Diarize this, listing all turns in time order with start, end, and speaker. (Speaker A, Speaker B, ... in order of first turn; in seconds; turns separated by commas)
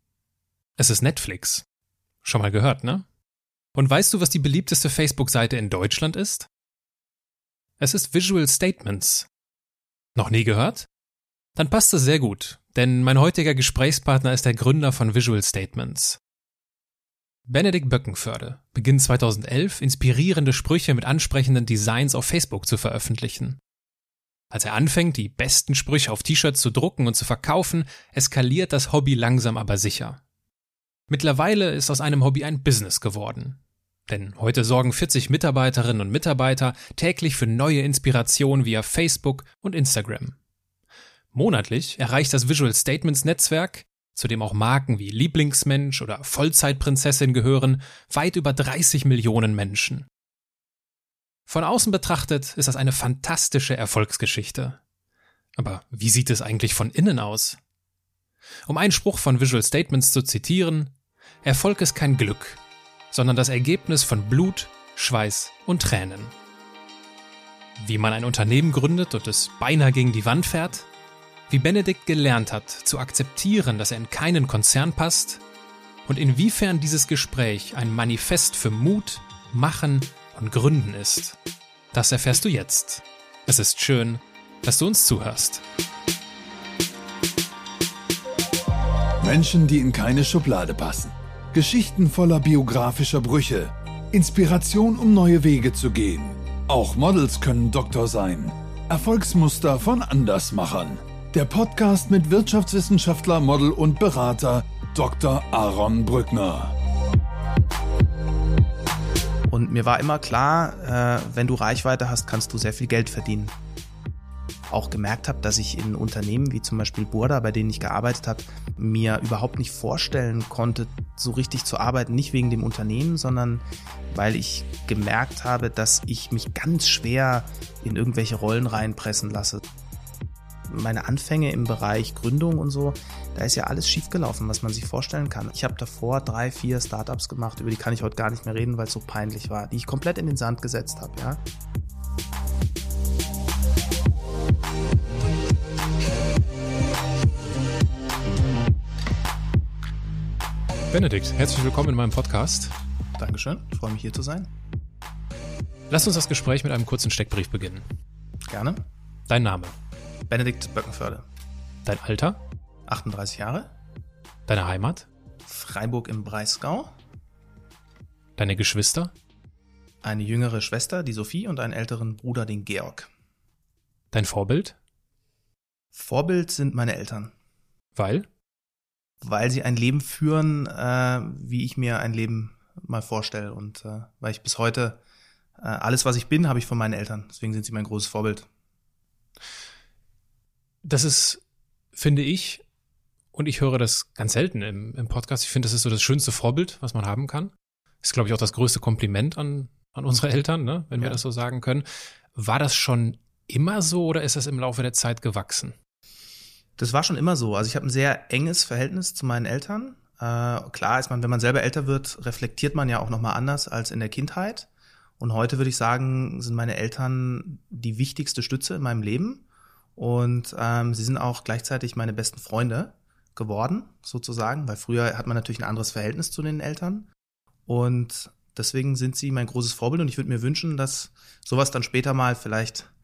Speaker A: 0.8-1.6, Speaker A: 2.2-3.0, Speaker A: 3.8-6.5, Speaker A: 7.8-9.3, Speaker A: 10.2-10.9, Speaker A: 11.6-16.2, Speaker A: 17.5-23.6, Speaker A: 24.5-30.2, Speaker A: 31.1-40.4, Speaker A: 41.3-50.1, Speaker A: 51.5-54.8, Speaker A: 55.6-57.6, Speaker A: 58.7-60.9, Speaker A: 61.4-62.6, Speaker A: 63.1-66.3, Speaker A: 67.8-70.9, Speaker A: 71.5-75.4, Speaker A: 76.1-81.4, Speaker A: 81.9-85.6, Speaker B: 89.2-106.7, Speaker C: 109.5-113.5, Speaker C: 114.7-129.6, Speaker C: 130.7-141.4, Speaker A: 150.9-152.7, Speaker C: 153.2-154.5, Speaker A: 155.9-157.9, Speaker C: 158.5-158.8, Speaker A: 159.3-159.7, Speaker C: 160.3-161.3, Speaker A: 161.8-162.4, Speaker C: 162.9-163.7, Speaker A: 164.5-165.1, Speaker C: 165.5-166.9, Speaker A: 168.4-169.1, Speaker C: 170.0-173.1, Speaker A: 174.1-174.8, Speaker C: 175.9-177.3, Speaker A: 178.0-178.3, Speaker C: 179.2-185.0, Speaker C: 185.6-188.5, Speaker A: 190.8-191.4, Speaker A: 191.9-192.6, Speaker A: 193.3-205.8, Speaker C: 206.8-219.4, Speaker C: 220.0-227.1, Speaker C: 227.7-232.9